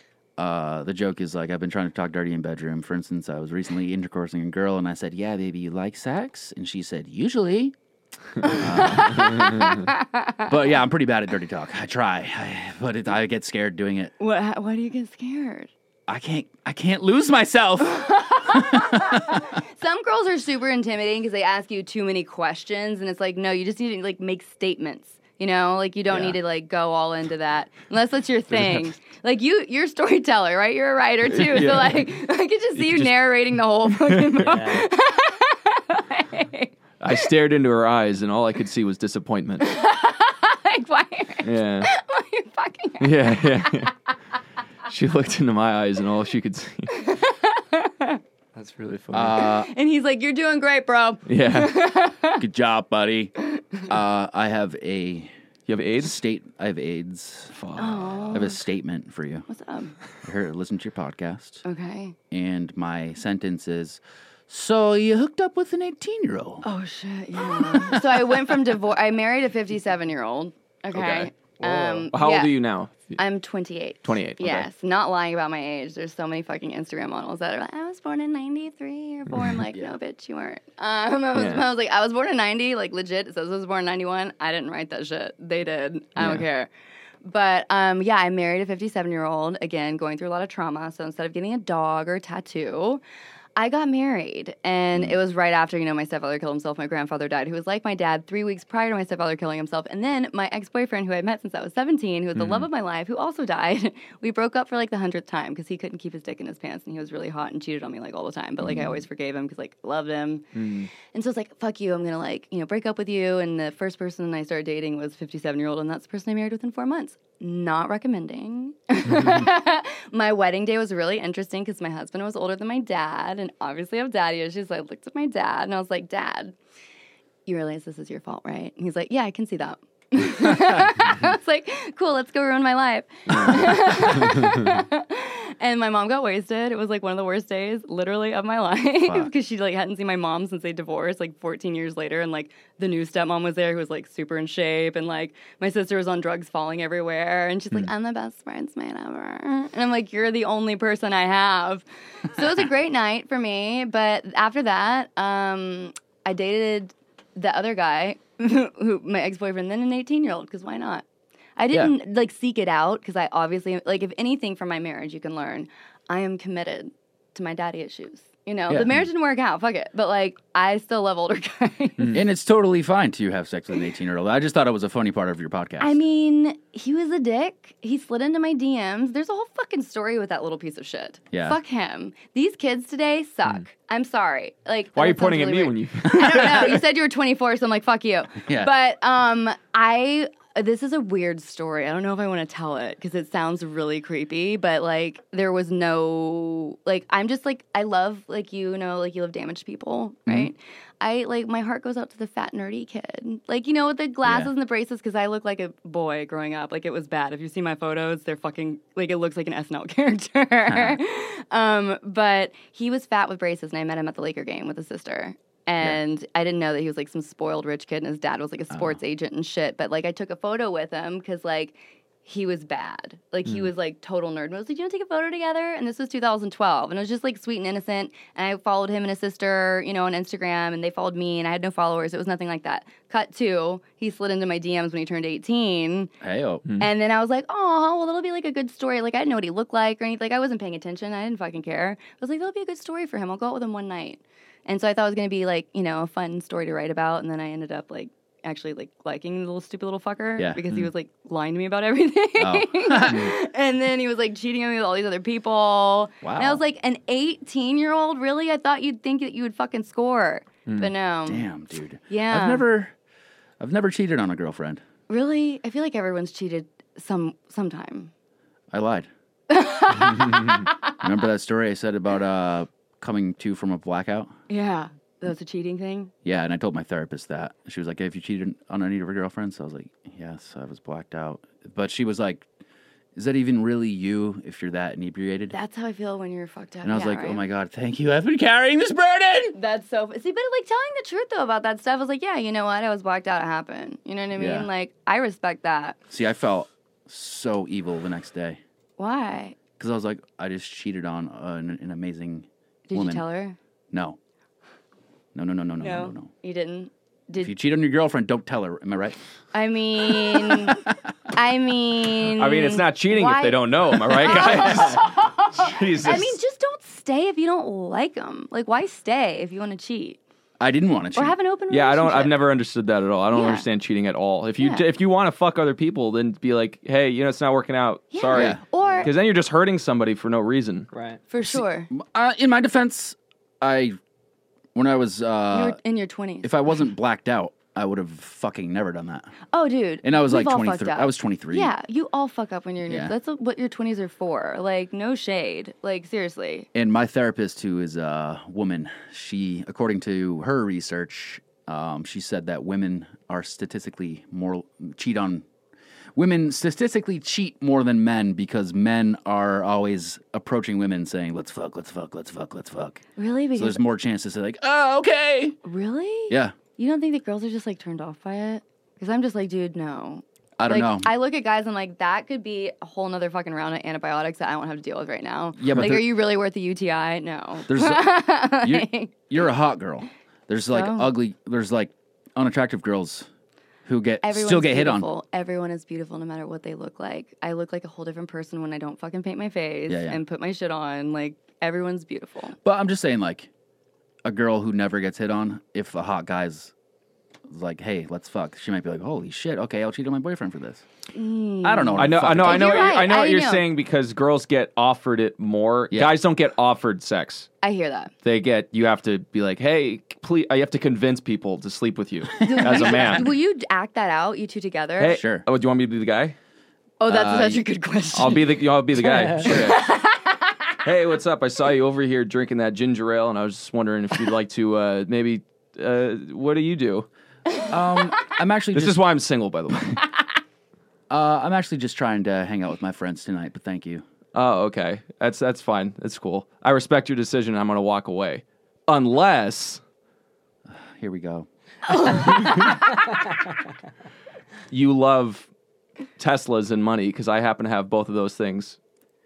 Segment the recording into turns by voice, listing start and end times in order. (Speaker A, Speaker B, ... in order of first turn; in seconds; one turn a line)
Speaker A: 0.4-7.7
Speaker A: 8.4-9.8
Speaker B: 8.4-10.4
Speaker C: 9.3-9.6
Speaker A: 10.4-14.1
Speaker B: 14.2-15.7
Speaker A: 16.1-19.4
Speaker B: 17.9-37.1
Speaker A: 26.1-26.4
Speaker C: 31.3-32.1
Speaker C: 32.7-33.1
Speaker C: 34.0-34.5
Speaker D: 34.4-34.9
Speaker C: 37.0-39.7
Speaker B: 39.6-43.9
Speaker C: 41.4-41.9
Speaker C: 43.0-43.9
Speaker C: 44.9-46.9
Speaker B: 46.9-48.2
Speaker D: 48.5-49.5
Speaker A: 49.1-49.7
Speaker B: 49.4-52.4
Speaker C: 51.3-51.7
Speaker A: 52.4-53.3
Speaker A: 53.8-55.3
Speaker C: 55.7-56.2
Speaker A: 56.0-57.5
Speaker C: 57.5-58.4
Speaker B: 57.8-58.6
Speaker A: 58.3-59.5
Speaker B: 59.5-59.9
Speaker A: 60.2-61.6
Speaker B: 61.6-62.1
Speaker A: 62.3-66.7
Speaker B: 66.6-72.5
Speaker C: 70.9-71.3
Speaker D: 71.6-72.1
Speaker C: 72.1-73.2
Speaker B: 73.2-86.7
Speaker C: 74.0-74.7
Speaker C: 81.3-81.7
Speaker C: 86.2-86.4
Speaker B: 87.2-93.0
Speaker B: 93.5-110.5
Speaker C: 102.4-102.7
Speaker C: 110.5-110.9
Speaker B: 111.0-126.5
Speaker B: 127.5-161.0
Speaker C: 133.3-134.8
Speaker B: 161.6-172.2
Speaker A: 168.7-169.0
Speaker A: 172.1-176.0
Speaker B: 175.8-236.1
Speaker A: 181.3-181.6
Speaker C: 184.9-186.8
Speaker A: 186.1-186.7
Speaker A: 188.4-188.7
Speaker A: 204.2-204.5
Speaker A: 210.7-211.0
Speaker A: 218.7-219.0
Speaker A: 236.2-236.6
Speaker B: 236.8-261.5
Speaker A: 250.4-250.6
Speaker A: 252.4-253.3
Speaker A: 256.2-256.6
Speaker A: 261.3-262.9
Speaker B: 262.1-262.6
Speaker A: 263.6-264.8
Speaker B: 265.1-268.1
Speaker A: 268.7-269.1
Speaker B: 269.5-270.8
Speaker A: 271.0-274.3
Speaker B: 274.5-276.1
Speaker A: 276.2-282.4
Speaker A: 283.1-285.5
Speaker B: 285.5-287.4
Speaker A: 286.8-289.6
Speaker B: 289.5-296.0
Speaker A: 294.3-294.7
Speaker A: 296.1-298.6
Speaker B: 299.0-299.6
Speaker A: 299.8-303.2
Speaker B: 302.9-303.6
Speaker A: 303.9-304.2
Speaker A: 305.3-306.3
Speaker B: 305.8-307.5
Speaker A: 307.4-309.2
Speaker B: 309.5-320.2
Speaker C: 312.3-316.4
Speaker A: 320.6-321.3
Speaker B: 321.1-322.4
Speaker C: 321.7-330.9
Speaker B: 323.3-323.6
Speaker B: 324.6-324.9
Speaker B: 328.1-329.1
Speaker A: 328.3-328.6
Speaker D: 330.9-331.2
Speaker B: 331.3-331.9
Speaker A: 331.4-334.0
Speaker A: 334.7-335.8
Speaker B: 335.5-336.8
Speaker A: 336.4-339.3
Speaker B: 339.5-346.7
Speaker A: 340.0-341.7
Speaker A: 342.9-343.1
Speaker A: 346.7-355.4
Speaker A: 356.1-363.0
Speaker B: 363.2-363.8
Speaker A: 363.6-365.6
Speaker B: 365.6-379.2
Speaker A: 366.3-366.5
Speaker A: 370.6-371.1
Speaker A: 375.6-376.1
Speaker A: 377.7-383.3
Speaker B: 380.7-381.1
Speaker A: 383.9-385.1
Speaker B: 384.2-392.6
Speaker A: 389.9-390.2
Speaker A: 392.6-393.5
Speaker A: 394.2-396.7
Speaker A: 397.5-400.8
Speaker B: 401.1-403.6
Speaker A: 401.6-403.0
Speaker C: 402.0-407.5
Speaker A: 405.9-406.1
Speaker B: 407.6-408.1
Speaker C: 408.2-413.3
Speaker B: 412.4-415.2
Speaker C: 415.0-416.4
Speaker A: 415.0-415.4
Speaker B: 417.0-418.6
Speaker A: 417.1-417.6
Speaker C: 418.1-419.9
Speaker B: 419.4-420.5
Speaker C: 420.8-427.1
Speaker A: 427.7-429.0
Speaker C: 428.7-430.0
Speaker A: 431.1-434.0
Speaker C: 434.3-439.8
Speaker A: 440.7-441.5
Speaker B: 441.9-443.0
Speaker C: 444.7-445.5
Speaker C: 446.2-448.8